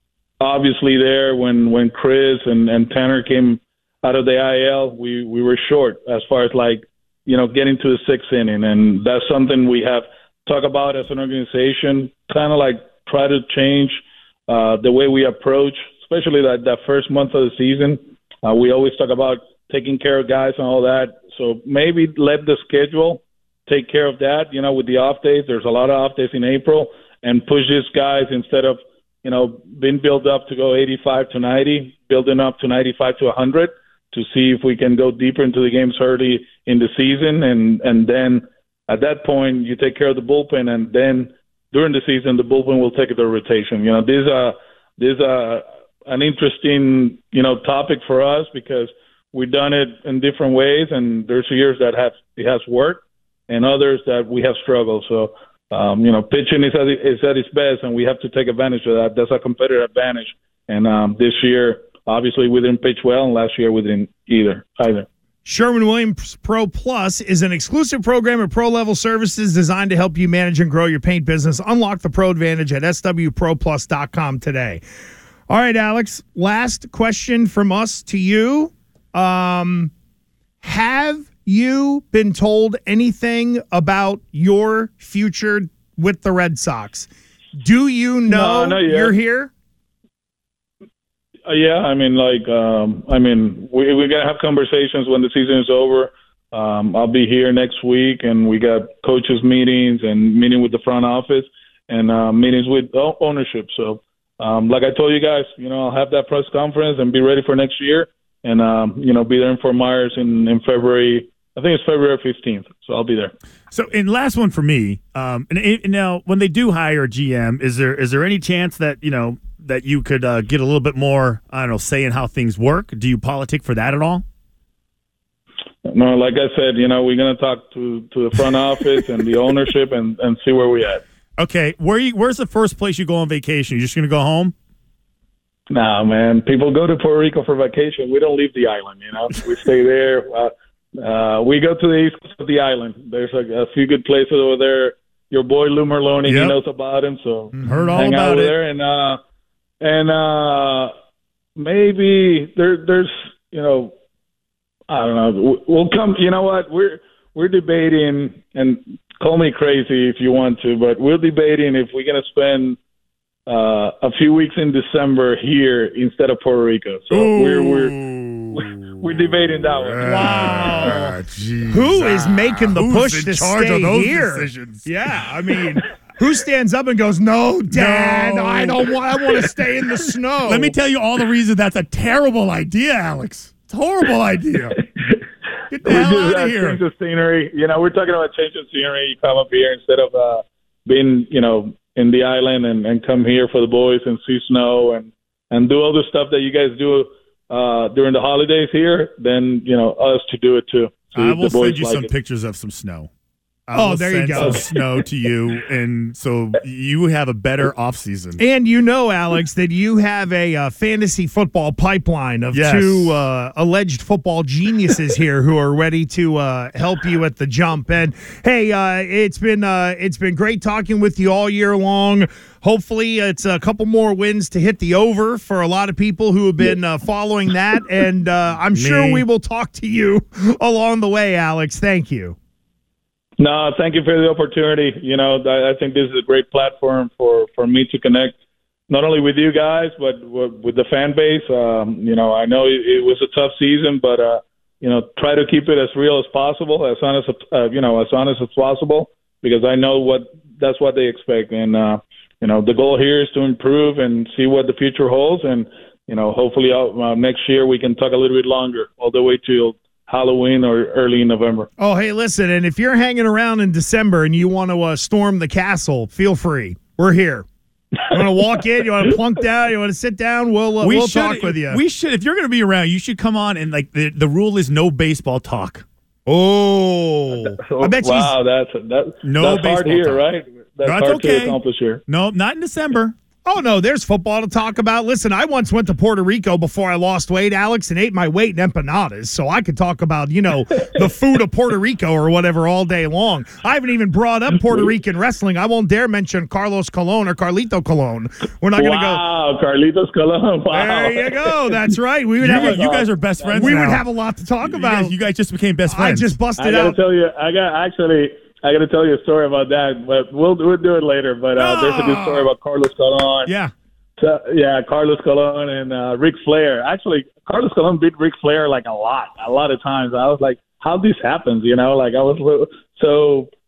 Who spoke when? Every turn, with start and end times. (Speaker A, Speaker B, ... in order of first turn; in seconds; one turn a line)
Speaker A: 0.4-65.1
Speaker B: 65.4-74.8
Speaker B: 75.5-79.9
Speaker B: 80.6-89.5
Speaker A: 88.3-89.1
Speaker A: 91.5-113.3
Speaker C: 113.7-124.2
Speaker A: 125.8-131.0
Speaker C: 131.4-134.5
Speaker A: 135.7-149.2
Speaker C: 146.2-146.5
Speaker B: 147.5-148.1
Speaker C: 147.7-148.5
Speaker A: 149.8-150.9
Speaker A: 151.6-153.9
Speaker A: 154.9-162.8
Speaker A: 163.4-167.9
Speaker C: 167.1-174.9
Speaker A: 168.5-170.8
Speaker B: 170.0-171.2
Speaker B: 171.7-180.8
Speaker C: 177.7-179.4
Speaker C: 180.4-184.8
Speaker C: 185.7-186.8
Speaker A: 185.8-202.1
Speaker C: 201.1-203.1
Speaker C: 203.7-208.4
Speaker B: 203.7-204.6
Speaker A: 204.3-204.6
Speaker B: 208.4-232.3
Speaker C: 212.5-213.2
Speaker C: 228.6-229.2
Speaker A: 233.4-238.4
Speaker A: 238.9-261.7
Speaker B: 261.8-267.4
Speaker B: 268.1-271.8
Speaker C: 270.8-275.9
Speaker B: 276.3-278.4
Speaker A: 277.6-282.0
Speaker C: 279.2-280.3
Speaker C: 280.8-283.1
Speaker B: 283.4-299.2
Speaker A: 298.7-301.7
Speaker B: 300.7-305.1
Speaker C: 302.4-304.0
Speaker A: 302.4-303.9
Speaker C: 304.6-306.4
Speaker B: 305.9-307.0
Speaker A: 306.6-313.5
Speaker C: 311.6-312.5
Speaker C: 313.4-313.7
Speaker A: 314.2-323.5